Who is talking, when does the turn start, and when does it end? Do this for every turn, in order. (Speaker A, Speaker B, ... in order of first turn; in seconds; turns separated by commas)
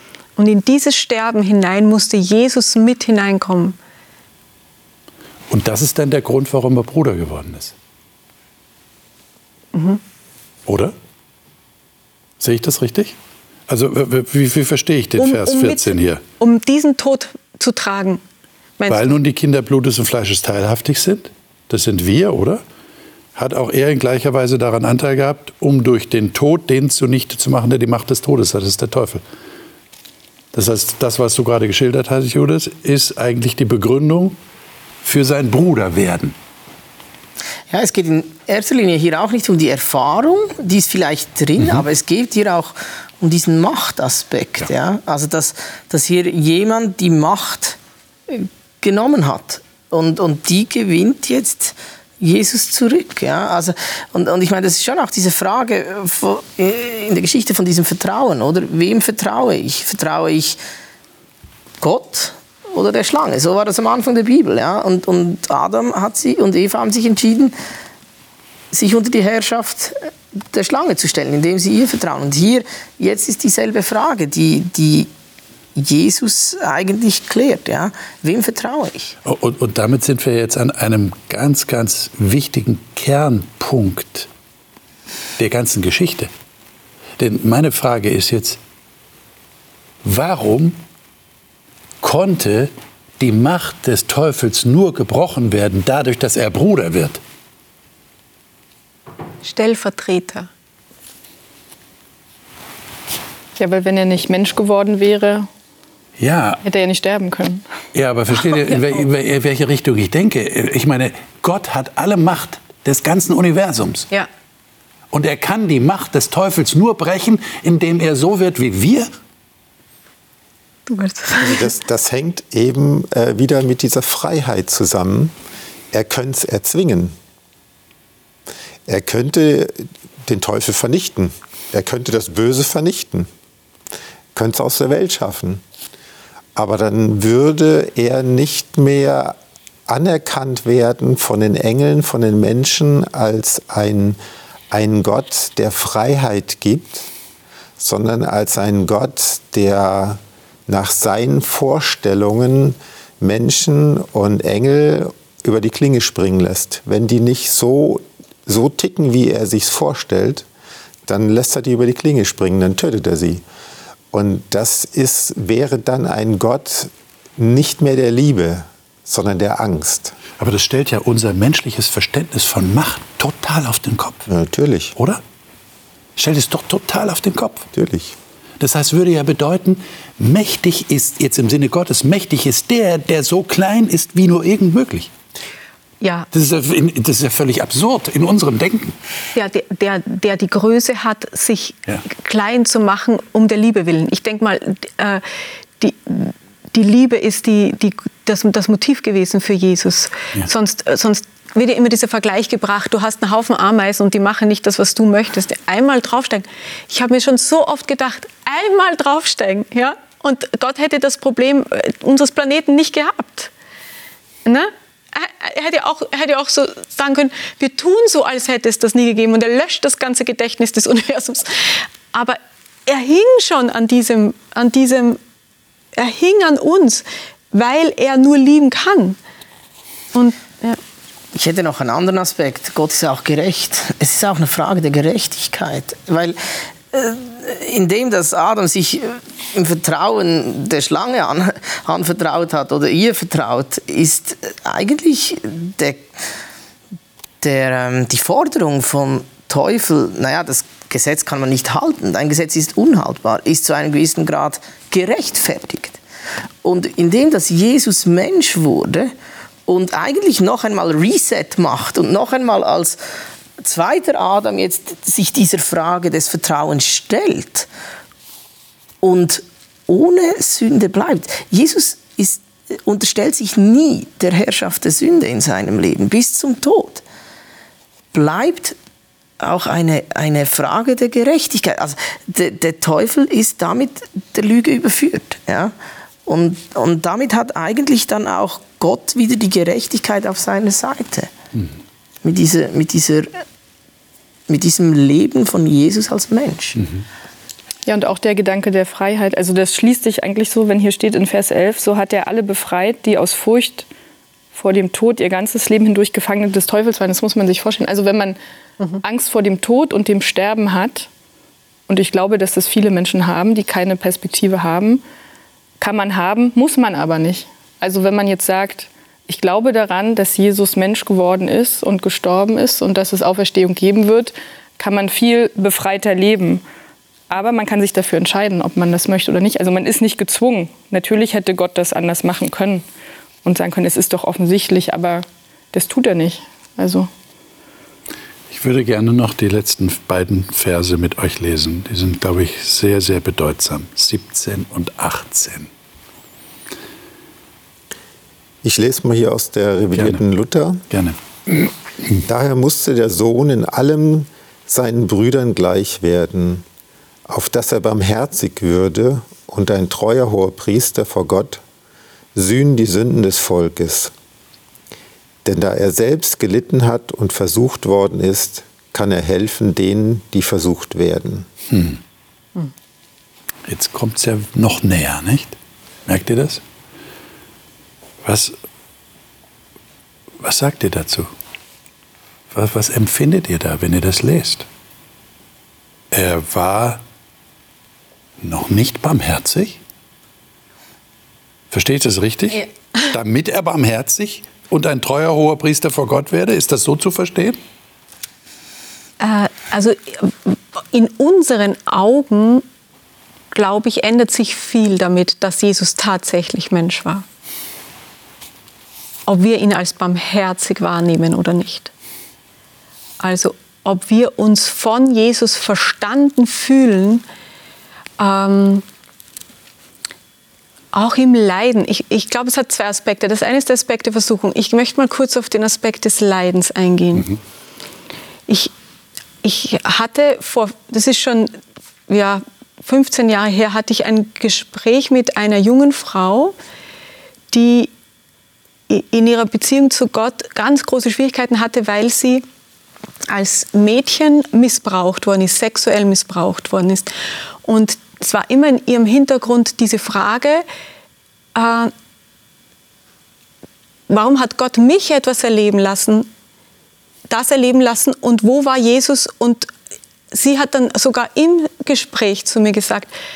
Speaker A: 0.4-3.8, Speaker B: 5.5-7.7, Speaker A: 9.7-10.0, Speaker B: 10.7-10.9, Speaker B: 12.4-13.2, Speaker B: 13.7-16.2, Speaker A: 15.2-18.2, Speaker B: 18.9-22.6, Speaker B: 23.4-29.2, Speaker B: 30.5-34.4, Speaker B: 35.0-36.4, Speaker C: 37.7-60.6, Speaker B: 41.6-41.9, Speaker C: 61.8-67.6, Speaker C: 68.7-75.1, Speaker C: 75.8-79.2, Speaker B: 79.2-84.3, Speaker B: 85.4-86.3, Speaker B: 87.2-88.6, Speaker B: 90.0-90.8, Speaker B: 92.0-97.2, Speaker A: 99.4-100.5, Speaker D: 103.6-105.5, Speaker B: 106.2-106.6, Speaker D: 106.6-107.7, Speaker B: 107.9-114.1, Speaker B: 115.1-119.1, Speaker A: 120.9-121.7, Speaker E: 121.4-125.3, Speaker E: 125.9-127.2, Speaker E: 128.9-133.3, Speaker E: 134.3-135.6, Speaker E: 136.6-139.4, Speaker E: 139.9-144.2, Speaker E: 144.7-147.1, Speaker E: 147.8-160.5, Speaker E: 161.1-163.4, Speaker E: 164.1-170.2, Speaker B: 170.4-174.3, Speaker E: 174.3-174.9, Speaker B: 175.0-175.2, Speaker B: 176.2-177.7, Speaker E: 177.7-178.2, Speaker B: 178.6-185.1, Speaker A: 186.0-186.3, Speaker B: 186.3-188.9, Speaker A: 189.3-195.2, Speaker A: 195.8-213.5, Speaker A: 214.5-225.2, Speaker A: 226.0-229.2, Speaker A: 230.1-230.8, Speaker C: 231.3-236.4, Speaker C: 236.9-246.1, Speaker C: 247.4-256.0, Speaker C: 256.6-259.1, Speaker C: 259.7-263.0, Speaker C: 263.6-267.7, Speaker C: 269.0-277.0, Speaker C: 278.1-278.8, Speaker C: 279.4-285.7, Speaker C: 286.3-291.3, Speaker C: 292.2-293.3, Speaker C: 294.5-296.8, Speaker D: 297.9-303.9, Speaker D: 304.5-308.4, Speaker D: 309.0-311.1, Speaker D: 311.9-315.0, Speaker D: 315.8-326.6, Speaker D: 327.3-332.8, Speaker D: 333.4-337.1, Speaker B: 338.5-345.7, Speaker E: 348.6-350.8, Speaker B: 350.0-350.2, Speaker B: 350.9-351.7, Speaker E: 352.2-356.6, Speaker E: 357.3-361.6, Speaker E: 362.4-364.1, Speaker E: 365.4-371.5, Speaker B: 371.7-372.0, Speaker B: 373.7-376.6, Speaker B: 378.2-378.6, Speaker B: 380.4-381.3, Speaker B: 382.5-384.7, Speaker B: 386.1-387.0, Speaker B: 388.4-389.8, Speaker B: 391.7-397.6, Speaker A: 399.2-402.6, Speaker A: 403.5-407.2, Speaker A: 409.3-411.9, Speaker A: 413.2-417.2, Speaker A: 418.2-418.9, Speaker A: 420.9-427.3, Speaker A: 428.5-428.7, Speaker A: 429.4-431.5, Speaker A: 432.1-436.5, Speaker A: 437.5-437.9, Speaker A: 438.9-442.4, Speaker A: 443.3-447.1, Speaker A: 447.6-450.6, Speaker A: 451.6-451.9, Speaker A: 454.1-456.3, Speaker A: 457.3-459.7, Speaker A: 460.3-463.1